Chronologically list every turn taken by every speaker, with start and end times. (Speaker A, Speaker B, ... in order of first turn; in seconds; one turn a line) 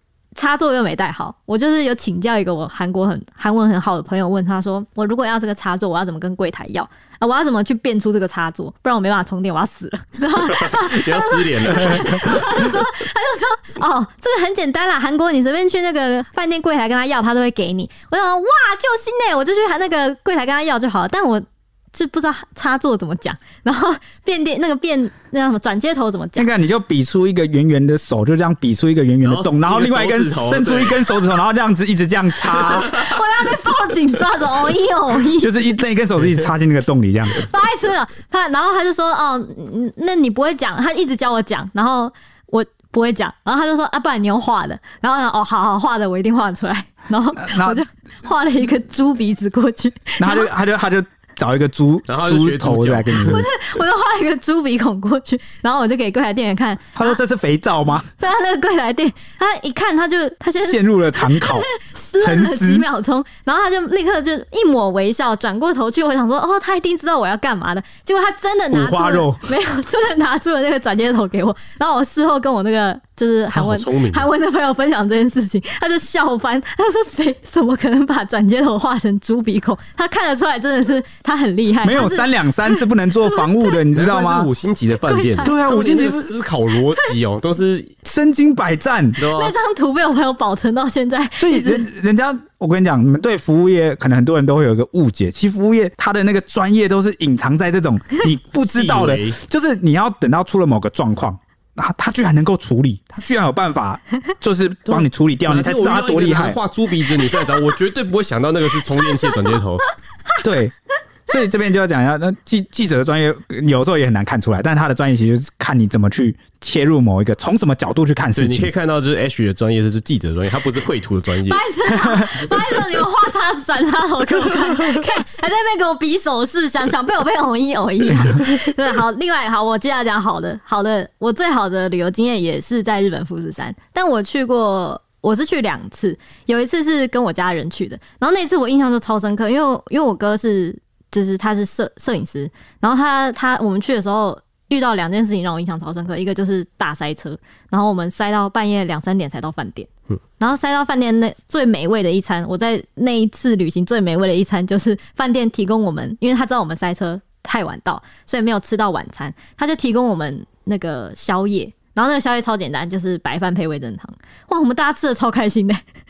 Speaker A: 0.3-26.5
Speaker B: 10.4-12.7
Speaker C: 26.4-32.9
Speaker B: 29.2-31.2
Speaker A: 32.5-35.5
Speaker C: 35.4-37.4
Speaker A: 37.3-50.5
Speaker C: 47.4-47.8
Speaker C: 50.2-53.5
Speaker B: 52.1-53.4
Speaker A: 53.2-57.2
Speaker C: 56.9-58.1
Speaker A: 58.2-83.8
Speaker C: 60.6-62.9
Speaker C: 68.7-69.5
Speaker B: 73.5-74.3
Speaker C: 81.8-84.5
Speaker B: 83.9-87.9
Speaker A: 85.1-85.5
Speaker C: 85.4-86.3
Speaker C: 88.0-89.2
Speaker B: 89.2-89.5
Speaker A: 89.3-91.9
Speaker C: 91.3-106.6
Speaker B: 98.5-99.4
Speaker B: 104.9-109.8
Speaker C: 110.4-110.7
Speaker C: 111.3-118.7
Speaker B: 118.3-121.6
Speaker A: 121.5-149.9
Speaker A: 150.4-165.8